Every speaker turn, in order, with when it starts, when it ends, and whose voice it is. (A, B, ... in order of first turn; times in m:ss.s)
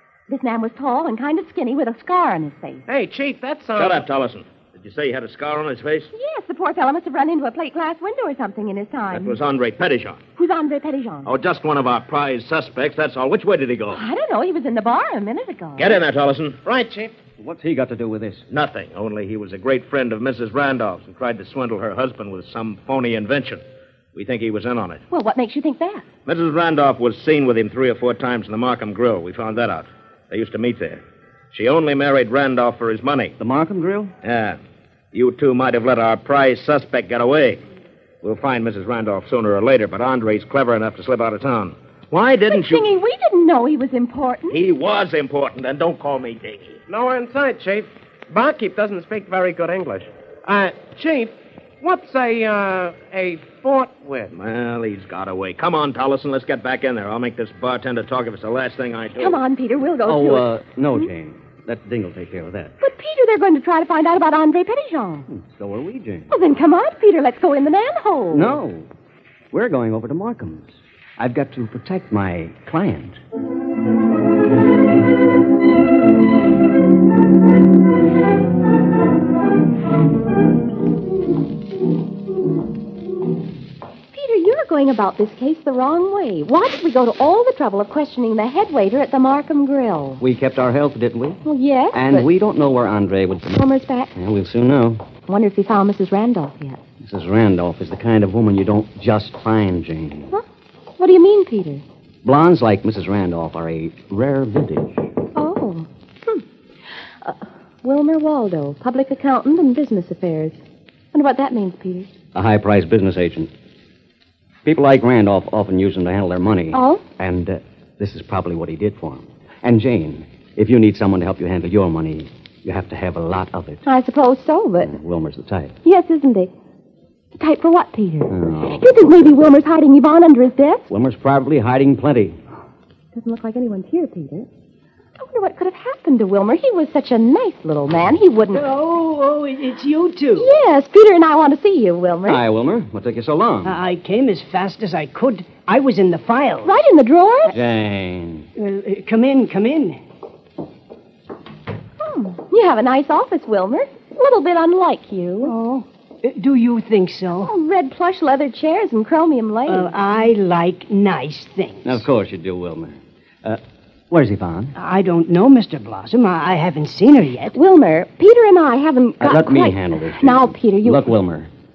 0:00.3-0:02.8 A
0:02.9-0:04.0 B
0:03.7-0:06.1 C
0:06.1-0:09.4 A
0:09.1-0:10.2 C
0:10.4-0:11.3 A
0:11.2-0:14.0 C
0:13.9-0:16.0 A
0:15.8-0:16.6 C
0:16.6-0:17.1 B
0:17.4-0:18.4 D
0:18.5-0:23.6 C
0:24.1-0:25.0 C
0:25.1-0:26.0 A
0:26.2-0:33.4 C
0:33.4-0:34.1 D
0:34.2-0:34.6 C
0:35.1-0:37.6 C
0:38.2-0:42.9 C
0:42.5-0:44.6 A
0:44.5-0:46.8 C
0:46.9-0:54.3 B
0:54.3-0:59.4 C
0:59.2-1:01.1 A
1:00.0-1:02.7 D
1:02.8-1:05.3 A
1:05.3-1:06.3 D
1:06.3-1:08.5 A
1:08.3-1:08.9 D
1:09.5-1:13.2 D
1:24.1-1:30.2 A
1:30.2-1:35.0 D
1:31.4-1:32.3 A
1:33.6-1:34.1 A
1:35.3-1:36.8 A
1:37.0-1:40.3 D
1:41.0-1:41.8 A
1:42.2-1:45.1 D
1:45.3-1:46.4 A
1:47.2-1:50.6 A
1:51.1-1:52.1 A
1:52.3-1:53.5 D
1:54.6-2:03.8 D
1:56.7-1:57.0 A
2:03.8-2:04.9 A
2:04.8-2:05.7 D
2:05.8-2:06.5 A
2:07.3-2:10.8 A
2:08.3-2:09.0 D
2:10.9-2:12.4 D
2:13.1-2:14.5 A
2:15.2-2:18.6 A
2:18.5-2:20.5 E
2:20.4-2:22.4 A
2:22.2-2:23.8 D
2:23.6-2:26.7 E
2:26.6-2:27.5 A
2:27.5-2:28.5 D
2:28.6-2:30.0 E
2:32.0-2:35.5 A
2:35.4-2:37.5 E
2:37.4-2:39.9 A
2:39.7-2:42.0 E
2:41.8-2:44.7 D
2:44.7-2:47.6 E
2:47.5-2:51.1 A
2:49.2-2:51.5 D